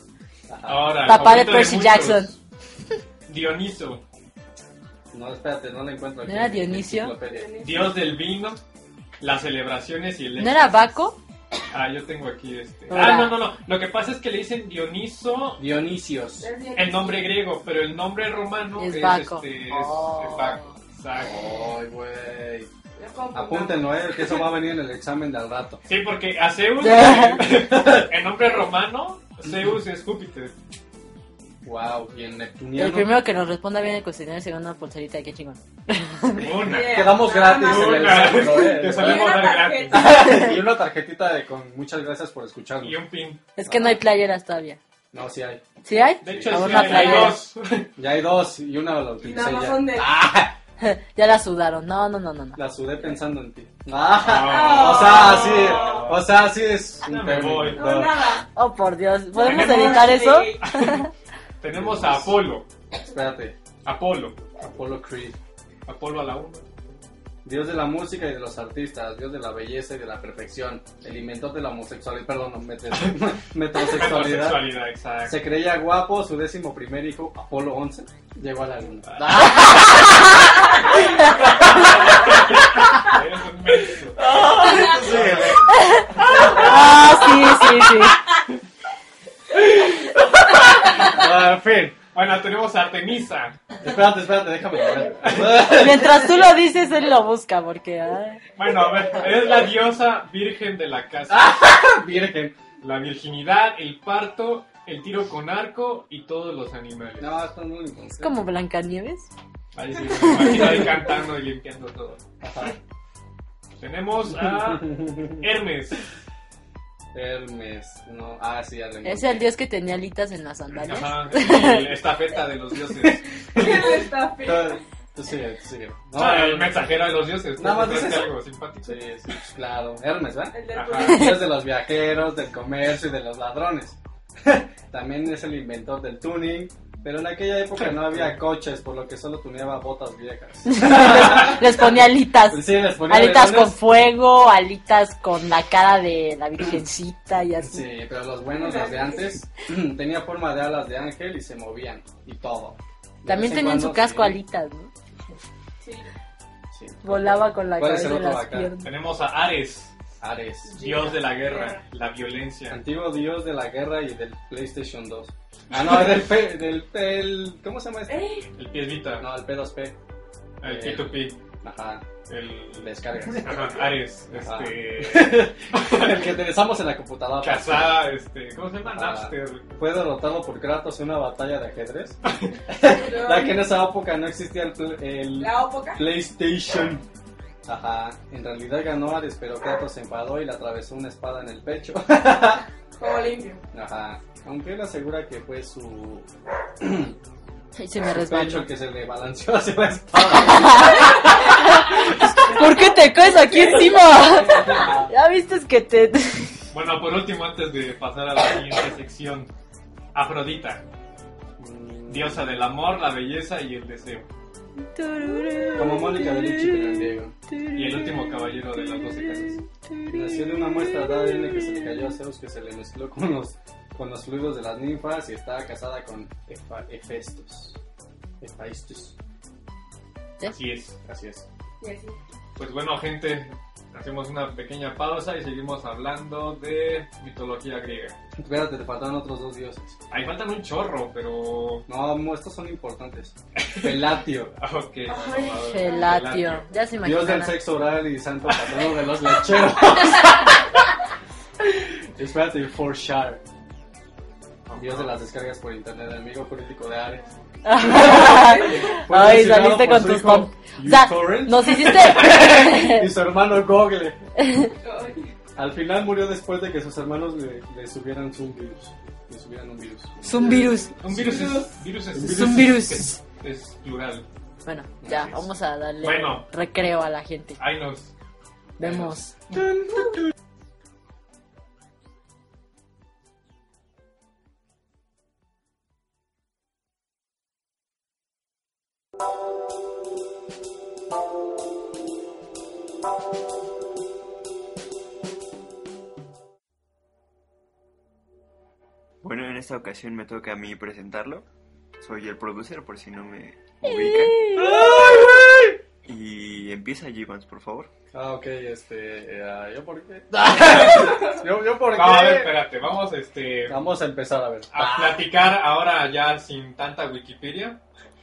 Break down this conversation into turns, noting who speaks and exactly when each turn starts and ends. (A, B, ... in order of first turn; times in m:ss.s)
0:00.5-0:01.0 A
0:00.6-0:02.4 B
0:01.0-0:02.3 C
0:03.3-0:04.0 B
0:05.1-0:07.5 A
0:06.2-0:07.1 C
0:07.2-0:08.0 D
0:07.6-0:08.6 B
0:09.2-0:10.8 B
0:10.4-0:11.2 C
0:11.7-0:15.6 B
0:12.9-0:13.4 C
0:15.6-0:16.5 A
0:16.4-0:17.3 D
0:16.7-0:21.5 B
0:18.8-0:20.8 C
0:21.2-0:22.7 A
0:23.0-0:23.9 D
0:23.3-0:25.8 A
0:25.8-0:30.5 B
0:26.8-0:27.4 C
0:27.4-0:28.1 A
0:31.6-0:33.1 A
0:32.7-0:36.5 C
0:36.3-0:40.6 B
0:36.6-0:40.4 D
0:36.7-0:39.3 A
0:39.9-0:43.0 A
0:40.2-0:40.5 C
0:42.8-0:43.4 B
0:43.6-0:44.8 C
0:43.6-0:44.0 A
0:45.1-0:45.6 A
0:45.8-0:47.5 C
0:46.2-0:47.2 A
0:46.2-0:47.9 B
0:48.0-0:50.5 A
0:49.2-0:50.1 D
0:50.8-0:52.6 C
0:52.6-0:58.3 A
0:54.2-0:56.3 B
0:54.3-0:56.1 D
0:57.0-0:57.9 B
0:57.7-0:58.5 D
0:58.5-1:01.1 C
0:59.3-1:00.7 D
0:59.4-1:01.1 B
1:01.6-1:02.7 B
1:01.7-1:02.4 A
1:03.1-1:03.6 A
1:03.8-1:04.4 B
1:04.6-1:05.4 A
1:05.8-1:06.7 B
1:07.4-1:14.7 A
1:13.8-1:15.4 B
1:15.2-1:23.1 A
1:19.1-1:19.7 B
1:19.7-1:20.3 C
1:21.6-1:24.2 B
1:24.1-1:27.2 A
1:24.6-1:25.2 D
1:24.9-1:25.6 B
1:25.7-1:28.2 C
1:26.2-1:26.5 B
1:29.6-1:32.0 A
1:32.1-1:33.6 B
1:33.8-1:36.4 A
1:35.2-1:35.6 B
1:35.6-1:38.4 C
1:38.6-1:41.5 B
1:41.3-1:42.5 A
1:42.8-1:47.4 B
1:47.2-1:48.3 A
1:48.2-1:49.3 C
1:49.7-1:52.2 B
1:50.1-1:51.0 C
1:52.4-1:52.8 A
1:53.8-1:56.0 B
1:54.4-1:55.2 A
1:57.1-1:59.4 A
1:59.0-2:01.9 C
2:00.7-2:03.3 B
2:03.5-2:06.9 A
2:03.5-2:04.8 D
2:06.2-2:09.0 B
2:07.6-2:23.8 A
2:10.5-2:11.4 D
2:10.7-2:11.3 B
2:17.8-2:18.3 B
2:20.6-2:27.9 C
2:27.6-2:34.4 A
2:28.5-2:29.4 D
2:33.2-2:34.9 C
2:35.8-2:36.1 D
2:36.7-2:38.7 A
2:37.0-2:38.9 C
2:38.8-2:39.9 B
2:40.2-2:40.8 A
2:40.6-2:41.8 D
2:40.8-2:42.8 B
2:42.7-2:48.2 A
2:48.1-2:48.5 D
2:48.6-2:49.3 B
2:49.2-2:50.0 A
2:50.6-2:51.4 B
2:50.6-2:52.1 A
2:52.3-2:56.3 B
2:52.8-2:53.8 A
2:54.4-2:58.0 A
2:57.4-2:59.7 B
2:58.8-3:07.0 A
3:02.2-3:02.5 B
3:02.8-3:03.6 D
3:05.4-3:06.1 D
3:07.6-3:12.6 A
3:13.0-3:13.6 D
3:13.7-3:16.3 A
3:16.8-3:17.2 A
3:17.8-3:18.7 C
3:18.1-3:22.7 A
3:20.4-3:26.6 C
3:23.3-3:24.0 D
3:24.5-3:25.1 A
3:26.7-3:29.5 B
3:30.1-3:30.8 B
3:31.6-3:32.6 A
3:32.1-3:34.3 B
3:34.8-3:42.1 C
3:35.7-3:37.3 A
3:37.7-3:39.6 B
3:40.1-3:47.8 A
3:48.4-3:49.2 A
3:50.4-3:51.0 B
3:51.0-3:51.4 A
3:51.8-3:52.2 D
3:52.6-3:58.2 B
3:58.4-4:00.0 A
4:00.1-4:01.8 B
4:01.9-4:04.5 A
4:03.6-4:04.0 B
4:04.6-4:06.7 B
4:05.1-4:06.2 D
4:05.5-4:07.6 C
4:07.0-4:10.8 A
4:08.5-4:08.7 B
4:11.6-4:13.4 A
4:14.7-4:15.1 B
4:14.7-4:17.2 A
4:17.6-4:23.1 C
4:17.8-4:24.2 A
4:18.0-4:18.9 D
4:24.4-4:24.7 C
4:24.8-4:25.3 D
4:25.6-4:33.0 A
4:30.2-4:31.0 C
4:31.0-4:34.3 B
4:31.2-4:31.7 D
4:32.2-4:33.2 C
4:34.6-4:37.6 C
4:35.0-4:35.4 A
4:36.0-4:36.5 B
4:37.6-4:38.1 B
4:38.8-4:39.3 C
4:38.8-4:39.2 B
4:39.5-4:40.3 A
4:59.2-5:01.4 E
5:02.0-5:04.6 E
5:03.8-5:04.9 C
5:04.5-5:05.8 A
5:06.0-5:07.9 E
5:08.1-5:12.5 A
5:10.6-5:11.1 B
5:11.9-5:13.8 B
5:13.7-5:15.1 A
5:14.7-5:17.8 B